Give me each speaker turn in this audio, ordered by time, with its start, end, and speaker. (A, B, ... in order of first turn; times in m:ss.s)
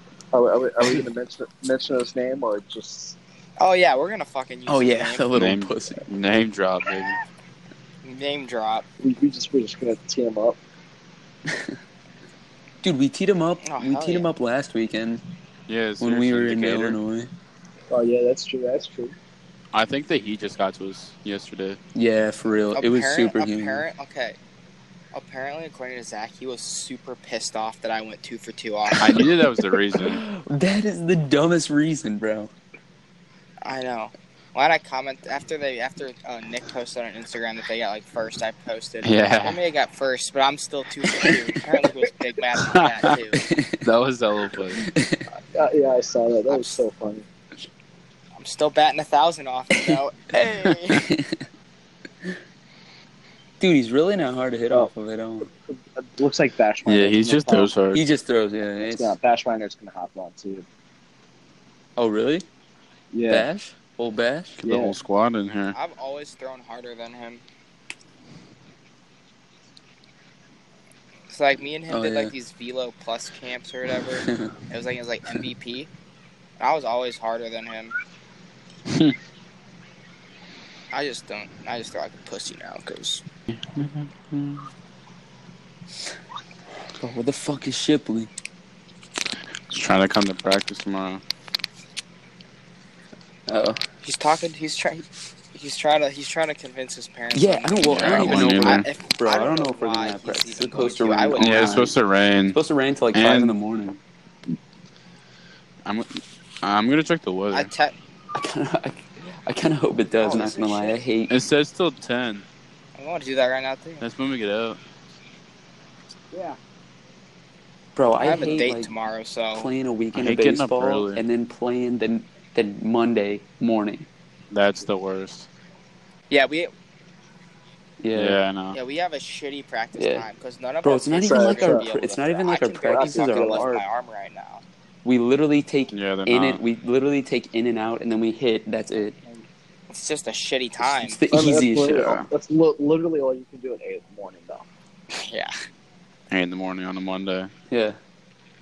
0:00.3-0:03.2 A
0:03.6-0:05.3 B
0:04.7-0:06.0 C
0:05.3-0:07.2 D
0:08.0-0:08.8 B
0:09.0-0:10.6 A
0:12.8-0:15.2 C
0:13.6-0:14.3 B
0:15.7-0:17.0 D
0:16.0-0:17.3 C
0:17.9-0:19.1 A
0:19.7-0:21.8 D
0:21.9-0:23.8 C
0:22.7-0:24.4 B
0:25.1-0:29.3 B
0:28.9-0:32.5 C
0:29.0-0:30.2 D
0:33.6-0:43.4 B
0:39.0-0:39.6 D
0:42.7-0:43.2 D
0:43.5-0:43.8 C
0:43.8-0:44.8 D
0:44.8-0:45.2 C
0:45.4-0:47.2 A
0:46.5-0:46.8 B
0:48.4-0:51.0 B
0:50.9-0:51.3 C
0:53.6-0:55.5 C
0:55.7-0:57.8 A
0:56.8-0:58.0 D
0:57.9-0:59.2 C
0:58.8-1:00.6 A
1:02.0-1:02.5 C
1:03.1-1:03.5 A
1:03.3-1:04.6 C
1:04.6-1:05.8 D
1:04.6-1:05.0 A
1:05.7-1:07.4 B
1:11.3-1:15.9 B
1:11.9-1:12.3 C
1:16.6-1:17.9 B
1:20.9-1:23.2 B
1:23.8-1:24.6 C
1:27.0-1:28.3 C
1:29.7-1:31.2 D
1:33.5-1:33.8 C
1:34.0-1:42.0 B
1:37.3-1:41.9 C
1:37.8-1:38.8 D
1:41.4-1:42.6 D
1:42.5-1:44.0 C
1:43.1-1:43.6 D
1:45.8-1:47.7 D
1:47.5-1:47.9 B
1:48.3-1:51.3 C
1:50.2-1:51.0 B
1:51.3-1:52.4 D
1:53.0-1:54.0 B
1:54.0-1:54.8 D
1:57.9-1:58.9 C
1:58.1-1:59.7 B
1:59.5-2:04.1 C
2:00.1-2:01.2 D
2:04.5-2:05.5 D
2:06.3-2:06.7 B
2:08.0-2:08.4 C
2:08.1-2:08.8 D
2:08.7-2:14.6 B
2:10.0-2:10.3 C
2:10.8-2:13.8 C
2:11.2-2:11.9 A
2:12.8-2:13.7 A
2:15.0-2:19.2 C
2:15.9-2:16.6 D
2:19.9-2:21.2 B
2:20.8-2:22.2 C
2:21.3-2:24.6 A
2:25.2-2:25.5 B
2:26.3-2:27.5 D
2:27.7-2:28.0 C